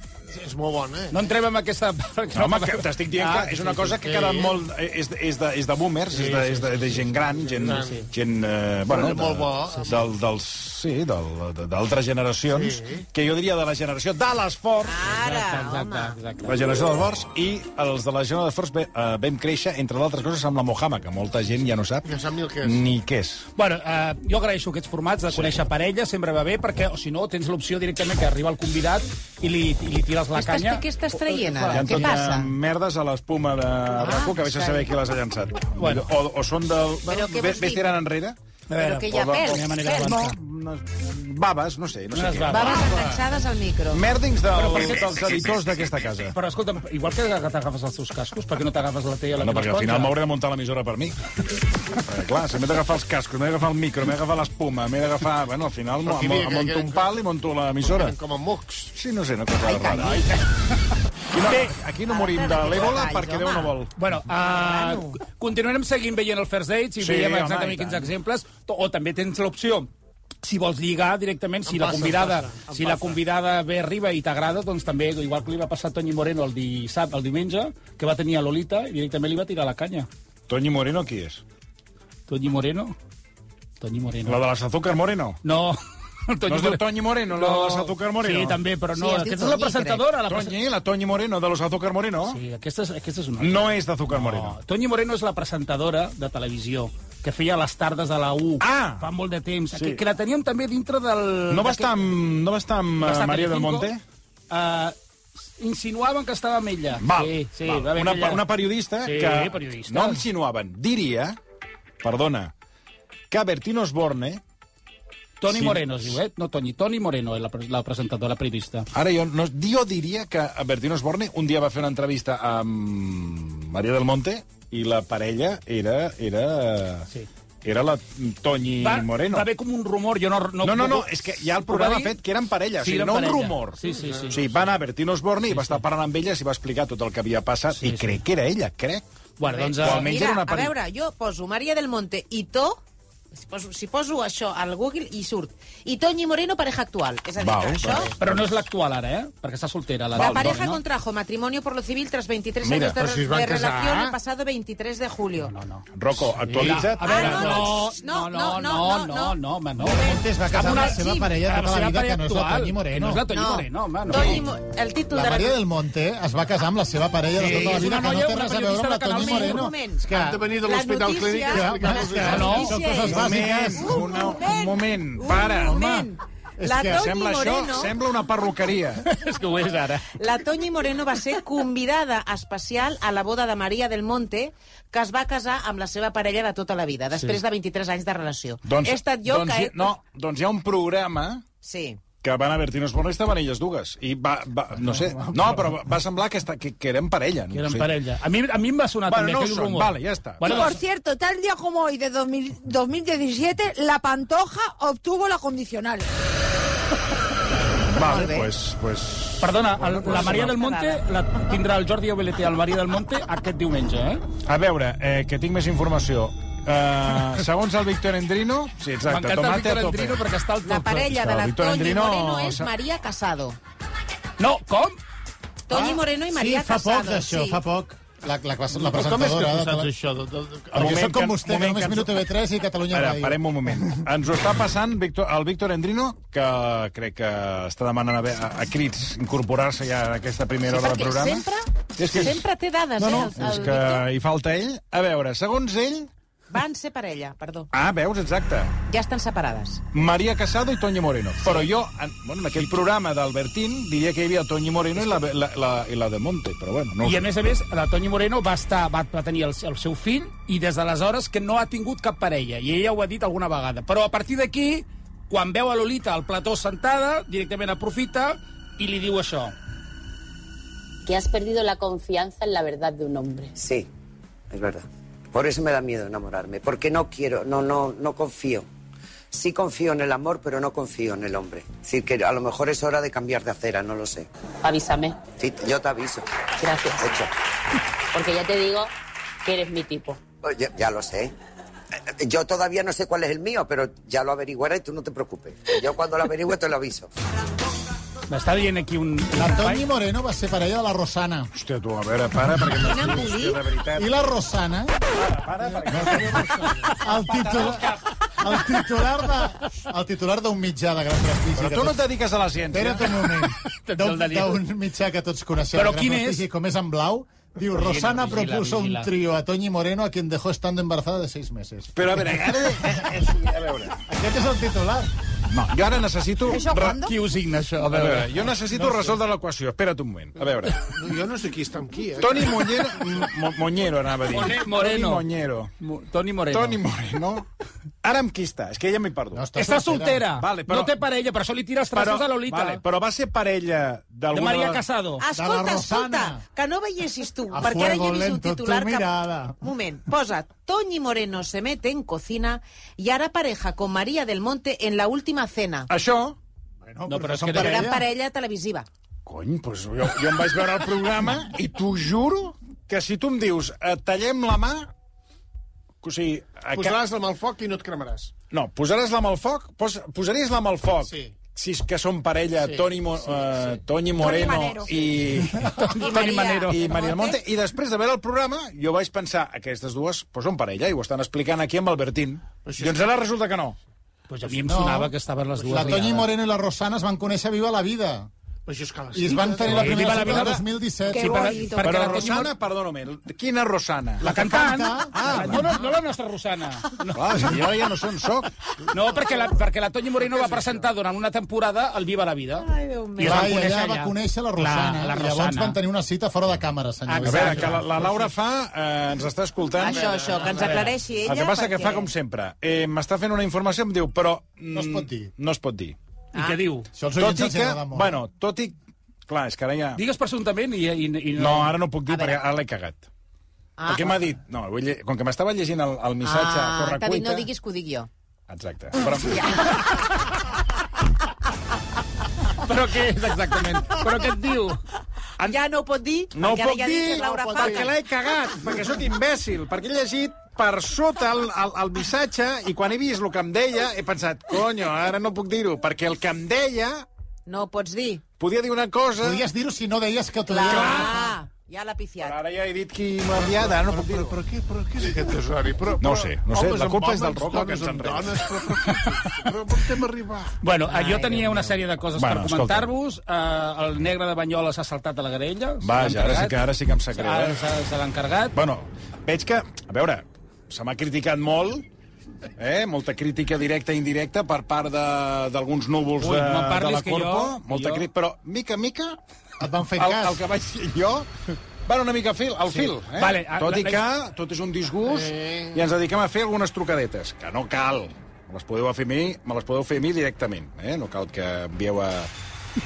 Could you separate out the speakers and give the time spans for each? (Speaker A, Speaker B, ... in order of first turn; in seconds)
Speaker A: 0.3-1.2, 4.0-4.6, 7.2-8.1, 8.9-10.1, 12.5-13.0, 22.0-22.9, 31.3-31.7, 56.0-57.2, 57.8-58.9, 71.7-73.2, 133.8-134.3, 152.9-154.1, 170.1-172.7, 228.8-230.8, 330.7-333.0, 366.7-368.3, 371.0-371.3, 372.6-373.6, 382.6-383.1, 385.6-386.1, 388.6-390.5, 400.4-400.8, 409.9-410.8, 437.1-437.7, 453.3-460.6, 485.1-485.9
Speaker B: 1.1-4.0, 6.1-7.1, 15.0-16.6, 23.6-30.8, 35.8-36.1, 38.7-40.4, 42.1-42.9, 44.5-45.5, 46.3-50.1, 59.9-60.4, 64.0-69.9, 70.4-80.1, 82.3-83.0, 83.8-84.4, 85.4-90.5, 92.3-102.0, 103.0-103.9, 104.5-105.0, 105.6-108.4, 109.0-110.2, 115.4-118.9, 128.8-132.2, 132.8-134.6, 135.4-135.8, 137.7-138.2, 139.4-140.1, 148.2-150.8, 155.4-155.8, 156.4-164.4, 167.3-169.7, 172.2-172.8, 179.0-180.1, 187.1-187.4, 194.9-195.7, 197.5-200.8, 209.4-214.2, 219.1-221.1, 224.4-225.0, 257.0-269.5, 298.3-299.9, 313.6-314.6, 315.7-316.4, 317.7-319.1, 326.9-329.1, 334.3-335.2, 335.8-336.8, 339.6-342.8, 344.3-345.2, 357.1-357.9, 375.6-376.9, 384.3-386.3, 389.7-392.5, 394.2-397.5, 398.9-405.8, 407.1-408.3, 410.6-410.9, 416.3-416.9, 419.9-421.8, 432.6-434.8, 460.6-466.6, 467.1-468.6, 476.2-478.1, 482.7-484.0
Speaker C: 2.3-15.0, 16.4-22.1, 22.6-23.4, 25.3-25.6, 31.7-38.4, 39.1-43.1, 43.9-46.3, 49.4-51.1, 52.0-58.1, 58.9-60.2, 61.3-63.9, 67.0-68.1, 80.5-81.4, 84.2-85.4, 86.5-88.6, 90.3-92.4, 93.4-94.5, 98.6-99.1, 99.7-100.0, 101.5-104.0, 107.0-111.4, 112.0-112.5, 113.3-114.4, 115.5-116.2, 118.9-127.1, 127.6-129.5, 130.6-133.8, 134.3-139.0, 139.7-140.7, 147.4-148.5, 150.1-150.6, 152.6-153.0, 155.9-157.6, 173.0-176.1, 176.8-179.0, 188.6-191.4, 192.2-197.9, 199.1-200.6, 207.9-210.6, 214.4-220.2, 221.0-222.7, 230.7-232.2, 232.9-241.4, 242.0-246.1, 247.7-248.7, 249.9-257.3, 301.5-304.1, 305.1-308.6, 311.6-313.3, 321.9-324.0, 325.5-327.0, 327.9-330.8, 332.2-335.7, 336.5-337.4, 338.0-339.5, 340.4-341.0, 341.9-344.8, 355.9-356.4, 359.2-364.9, 366.0-367.0, 368.5-383.8, 391.8-394.3, 395.1-395.8, 397.1-398.5, 407.2-410.5, 411.2-415.9, 417.1-418.7, 419.3-420.0, 421.4-423.1, 423.9-427.5, 428.5-429.8, 436.3-447.1, 448.4-449.5, 450.7-451.2, 452.2-454.4, 456.0-458.9, 462.1-462.9, 465.8-467.6, 468.5-471.9, 472.6-479.2, 480.0-481.3, 481.9-492.3
Speaker D: 14.8-16.1, 30.3-32.5, 33.9-34.9, 37.0-38.0, 38.7-40.2, 42.5-44.0, 59.6-60.3, 62.1-63.7, 64.3-65.2, 88.9-90.0, 139.5-142.8, 143.3-148.1, 150.1-155.5, 157.0-161.2, 163.3-165.6, 167.4-167.8, 169.1-177.9, 180.1-189.9, 191.6-192.0, 207.9-208.5, 210.1-211.0, 220.6-223.6, 225.7-227.6, 240.7-244.0, 246.5-247.7, 248.9-249.8, 302.7-303.6, 345.2-349.1, 349.6-355.9, 357.5-358.9, 375.8-377.4, 402.6-403.5, 409.8-412.1, 422.1-422.4, 423.8-424.2, 426.2-428.1, 429.2-430.1, 435.4-437.9, 447.4-448.2, 450.5-452.4, 460.9-461.8
Speaker E: 159.8-163.2, 165.1-170.4, 171.5-174.1, 176.6-177.1, 225.7-229.9, 230.7-233.8, 299.3-301.5, 304.0-305.0, 305.7-312.1, 312.7-323.0, 324.1-325.1, 339.3-340.2, 345.3-346.4, 347.5-349.6, 356.9-358.0, 384.6-385.1, 385.7-388.3, 389.1-391.7, 394.2-395.7, 403.2-407.8, 414.7-415.3, 416.9-418.2, 449.2-451.3, 479.6-480.4
Speaker F: 200.4-206.1, 326.5-327.2, 374.1-374.9, 391.1-392.4
Speaker G: 271.1-273.5, 284.6-285.2, 286.6-287.1, 288.1-288.9, 289.4-290.2
Speaker H: 273.5-273.9, 274.5-278.6, 279.3-284.3, 285.4-286.2, 287.0-287.3, 290.4-291.3, 292.1-297.1